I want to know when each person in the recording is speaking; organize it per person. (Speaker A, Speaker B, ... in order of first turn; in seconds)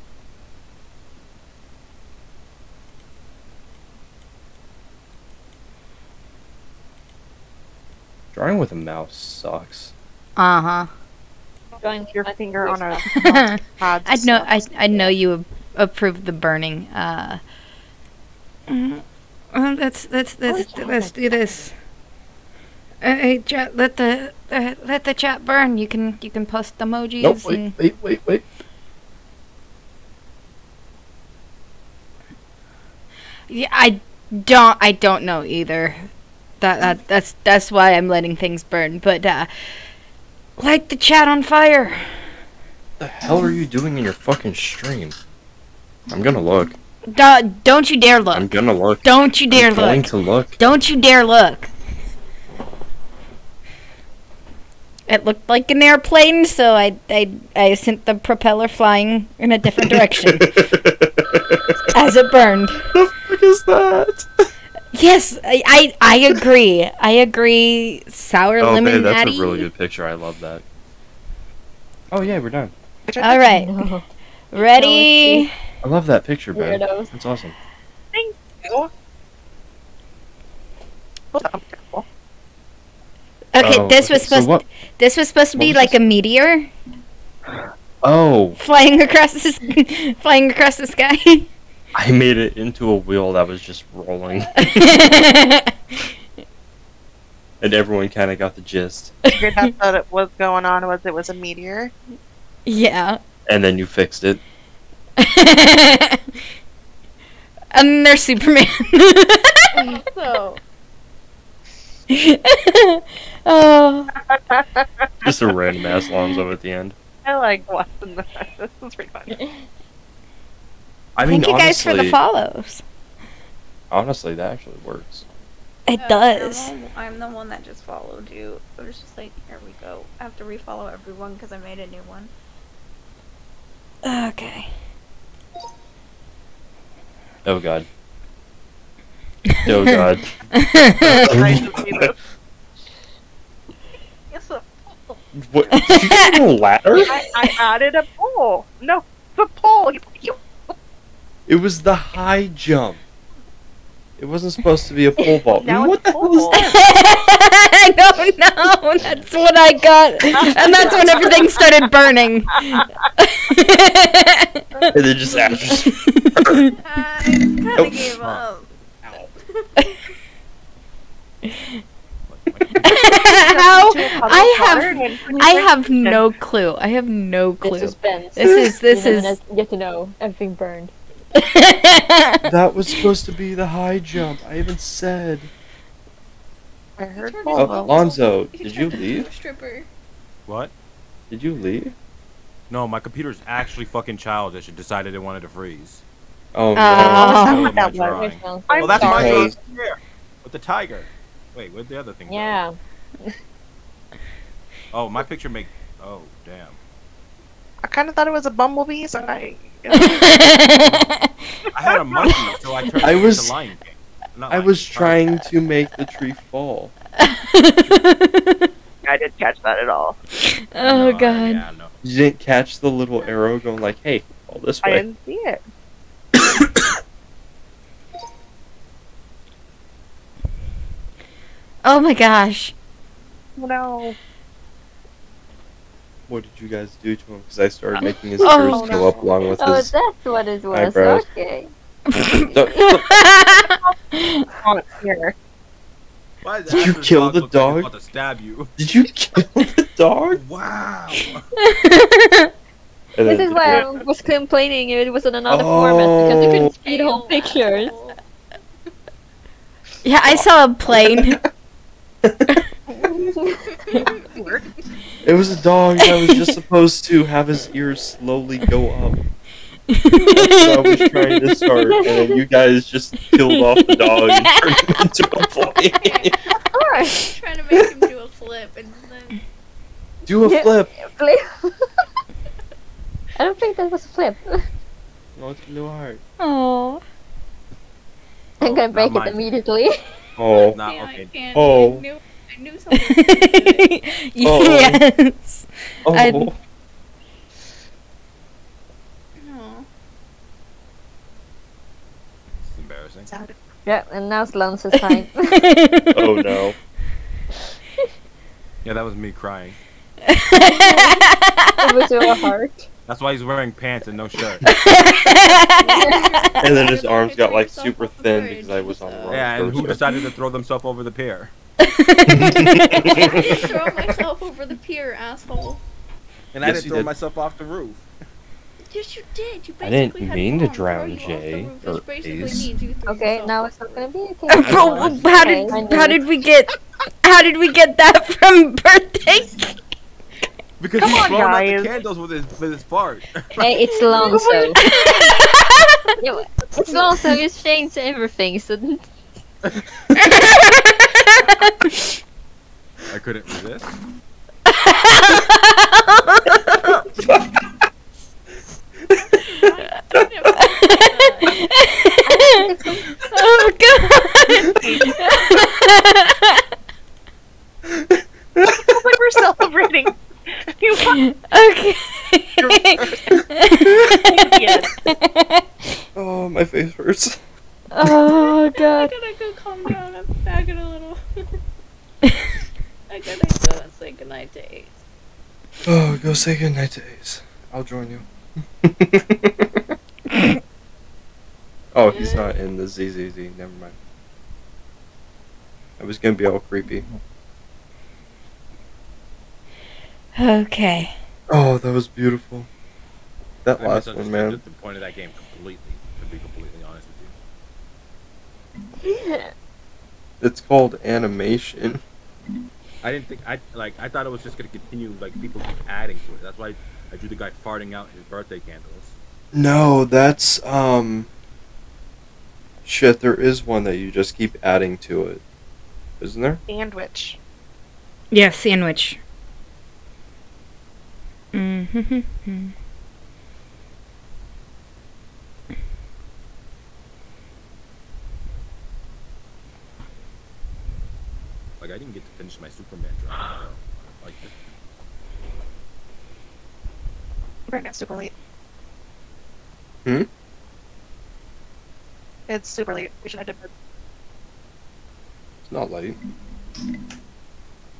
Speaker A: 8.3-9.9, 27.2-28.4, 43.0-45.2, 46.1-46.8, 48.3-50.6, 59.8-61.6, 63.0-64.3, 68.6-70.6, 72.1-72.7, 75.8-77.5, 83.6-84.6, 85.6-86.0, 88.0-88.6, 91.9-95.1, 97.6-99.2, 103.5-104.4, 115.2-117.0, 121.2-122.2, 123.9-125.2, 137.4-137.9, 139.7-140.2, 141.0-142.2, 145.3-147.1, 151.5-153.0, 154.2-156.6, 164.9-166.6, 182.4-185.5, 187.6-189.3, 191.3-191.9, 196.5-197.4, 199.2-199.5, 213.0-213.6, 214.5-216.9, 222.0-225.1, 236.3-239.9, 240.7-241.2, 242.4-243.1, 246.7-247.9, 248.8-250.4, 253.2-253.8, 255.5-256.7, 260.9-261.2, 262.2-262.6, 265.2-269.2, 270.3-276.4, 280.3-280.9, 285.4-286.2, 290.4-290.8, 291.5-292.0, 294.4-295.0, 296.1-296.6, 306.1-306.8, 316.6-320.0, 322.3-323.6, 326.6-327.1, 329.8-332.7, 357.1-357.6, 360.1-360.5, 367.9-368.9, 376.1-377.4, 385.9-388.2, 388.8-389.8, 391.9-393.9, 396.0-397.1, 401.5-402.7, 403.6-404.6, 410.4-412.0, 419.5-421.3, 422.9-425.4, 426.2-426.6, 455.6-456.2
Speaker B: 10.4-10.9, 13.1-17.4, 18.7-21.7, 23.0-27.8, 33.5-36.1, 36.6-39.5, 40.6-42.1, 47.1-48.5, 49.0-51.7, 55.1-60.6, 61.9-62.9, 64.9-69.7, 73.2-73.7, 74.5-75.5, 83.5-86.7, 88.6-91.5, 94.5-96.0, 99.2-99.7, 102.7-103.2, 105.2-106.3, 107.7-109.8, 112.1-114.1, 121.2-122.8, 125.9-126.7, 134.0-134.7, 139.5-140.0, 140.5-141.3, 145.7-146.3, 156.5-164.9, 165.8-166.8, 171.5-171.8, 172.8-179.4, 181.3-182.5, 196.8-197.7, 209.9-211.3, 217.2-218.7, 220.4-221.7, 231.8-232.7, 238.4-239.1, 242.1-244.5, 251.6-252.5, 260.0-261.4, 266.1-266.5, 269.9-271.2, 273.4-275.0, 286.4-287.0, 292.9-296.5, 305.0-306.3, 310.2-311.9, 314.7-316.6, 321.8-323.1, 334.5-336.7, 337.2-339.6, 344.8-346.0, 350.2-352.0, 354.7-356.6, 360.6-362.7, 363.3-366.6, 371.1-375.7, 378.0-378.9, 400.4-401.1, 428.3-429.2, 431.5-432.7
Speaker C: 11.8-13.3, 20.5-21.4, 73.4-75.5, 76.5-77.1, 177.6-180.9, 197.3-199.5, 202.3-203.3, 239.5-241.7, 253.2-258.0, 263.1-263.6, 271.9-272.4, 276.7-277.3, 280.4-281.7, 283.4-284.7, 288.6-290.0, 303.9-305.6, 310.6-311.2, 311.8-312.9, 316.0-316.2, 333.1-336.2, 343.6-344.8, 346.2-349.1, 361.1-361.5, 362.2-363.6, 365.0-365.4, 377.9-379.1, 409.0-409.5
Speaker D: 11.9-15.1, 73.1-73.4, 78.1-78.9, 81.3-82.0, 99.4-101.9, 114.3-115.3, 117.2-119.4, 141.0-142.2, 147.1-150.7, 155.6-156.8, 160.4-161.6, 173.3-176.2, 187.0-187.9, 197.0-199.5, 207.8-210.4, 219.0-220.2, 224.8-225.6, 233.6-234.2, 238.7-239.3, 243.6-243.9, 244.5-245.3, 253.7-254.0, 303.3-303.6, 341.0-341.9, 368.8-371.2, 373.0-373.2, 374.5-374.9, 426.7-427.4, 447.7-448.3, 452.5-453.7
Speaker E: 109.9-110.6, 126.0-132.3, 144.3-145.2, 160.8-161.2, 166.8-170.0, 187.1-189.9, 256.5-258.2, 263.7-264.7, 275.9-276.5, 277.2-279.4, 290.8-293.8, 299.4-299.9, 315.6-320.0, 323.0-325.8, 328.9-334.1, 335.6-335.9, 344.1-345.3, 359.1-361.5, 378.4-381.2, 383.1-385.0, 392.1-392.5
Speaker F: 168.2-168.5, 172.3-173.4, 190.5-190.7, 192.7-196.0, 197.3-202.6, 204.9-206.8, 211.7-215.4, 220.8-221.9, 246.4-248.7, 250.3-251.4, 288.6-289.5, 290.7-291.3, 302.6-303.3, 308.8-309.8, 313.1-314.7, 319.3-321.5, 326.5-328.1, 334.6-335.7, 340.8-343.9, 353.1-354.0, 403.8-407.4, 413.0-419.2, 441.8-444.5